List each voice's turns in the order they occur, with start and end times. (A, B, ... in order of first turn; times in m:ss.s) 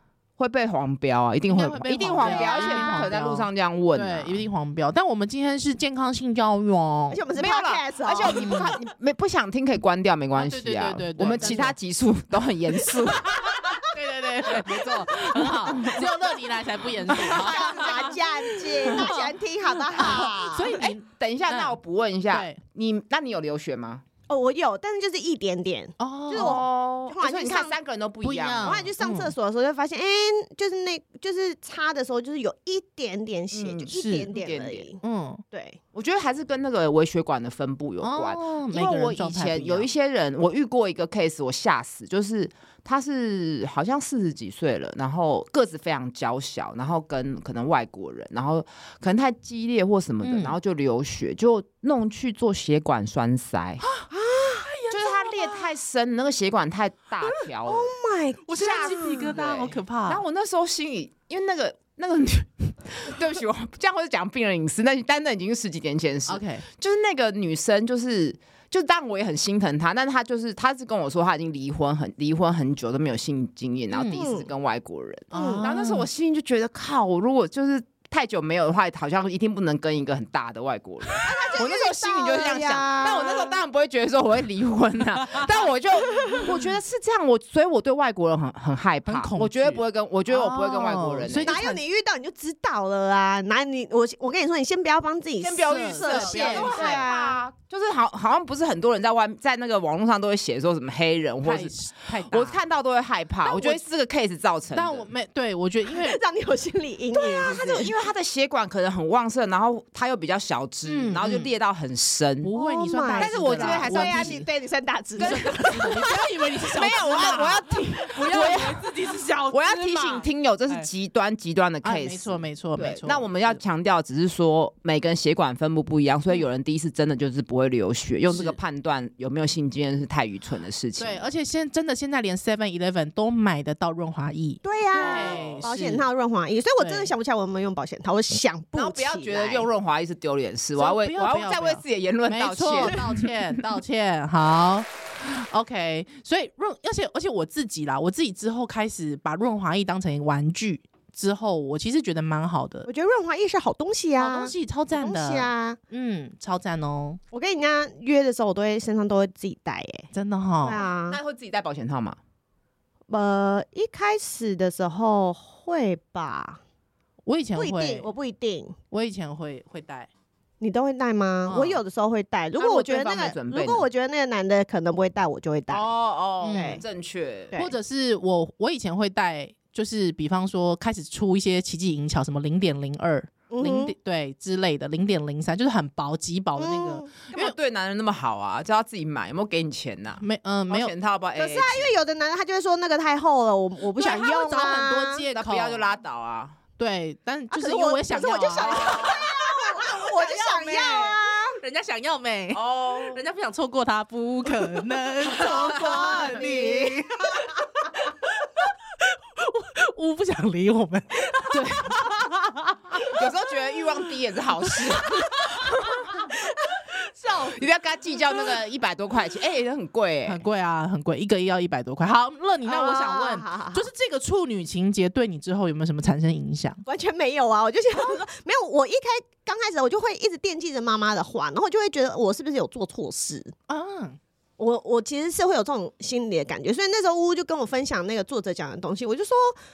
0:00.4-0:04.4 A
0:01.5-0:07.2 B
0:02.0-0:03.1 C
0:07.1-0:08.6 C
0:07.4-0:13.6 A
0:08.3-0:08.7 B
0:10.4-0:11.7 B
0:11.4-0:11.6 C
0:13.3-0:19.3 B
0:14.5-0:16.1 A
0:17.2-0:18.2 A
0:17.2-0:20.8 C
0:19.9-0:21.8 B
0:20.7-0:24.0 A
0:22.3-0:22.6 B
0:24.3-0:27.7 C
0:26.0-0:26.6 B
0:26.3-0:28.9 A
0:28.2-0:29.3 B
0:28.6-0:35.8 C
0:33.5-0:34.8 A
0:33.9-0:34.3 B
0:35.0-0:35.4 B
0:35.9-0:53.8 A
0:38.0-0:39.9 B
0:50.2-0:50.6 B
0:53.8-0:54.1 B
0:54.1-0:54.7 C
0:54.6-0:55.7 B
0:54.9-0:57.9 A
0:57.7-0:59.3 C
0:58.5-1:00.2 B
0:58.6-1:31.6 A
1:06.3-1:06.6 B
1:13.9-1:14.2 B
1:14.1-1:14.5 C
1:15.3-1:16.1 B
1:15.3-1:15.6 C
1:21.2-1:23.6 C
1:29.1-1:31.8 B
1:31.4-1:37.4 C
1:35.4-1:45.1 A
1:35.6-1:37.0 B
1:41.4-1:42.6 B
1:43.4-1:43.8 C
1:44.7-1:46.2 B
1:45.9-1:47.9 C
1:47.1-1:52.5 A
1:50.8-1:51.5 B
1:52.4-1:54.5 B
1:52.5-1:56.0 C
1:53.1-1:54.4 A
1:55.2-1:56.1 A
1:55.2-2:00.9 B
1:56.7-1:58.9 A
1:59.5-2:11.2 A
2:01.8-2:03.6 B
2:08.3-2:08.6 B
2:11.0-2:16.0 B
2:14.6-2:19.7 C
2:14.9-2:15.8 A
2:16.8-2:17.1 B
2:18.7-2:23.3 A
2:20.8-2:32.9 B
2:32.8-2:35.8 C
2:34.2-2:37.2 B
2:37.3-2:40.1 C
2:40.1-2:40.8 B
2:40.6-2:41.2 C
2:41.1-2:42.2 A
2:43.1-2:46.6 C
2:47.2-2:48.1 B
2:47.6-2:48.8 C
2:48.9-2:50.1 B
2:50.6-2:55.9 C
2:51.4-2:51.8 B
2:52.6-2:53.9 A
2:55.7-2:57.5 A
2:56.4-2:56.8 B
2:56.5-2:56.8 C
2:57.5-3:07.5 B
3:03.5-3:03.9 C
3:06.6-3:07.1 C
3:07.3-3:11.9 A
3:10.2-3:10.9 B
3:11.4-3:15.2 C
3:14.0-3:15.8 B
3:15.3-3:16.6 A
3:16.8-3:28.1 B
3:17.5-3:21.6 C
3:18.6-3:19.2 A
3:22.5-3:23.2 A
3:25.2-3:27.5 C
3:29.4-3:33.2 B
3:33.1-3:36.2 A
3:35.0-3:35.7 B
3:37.2-3:37.6 C
3:37.5-3:40.4 A
3:40.2-3:46.8 B
3:42.6-3:43.8 C
3:46.8-3:53.5 C
3:53.7-3:54.2 B
3:54.6-3:59.6 C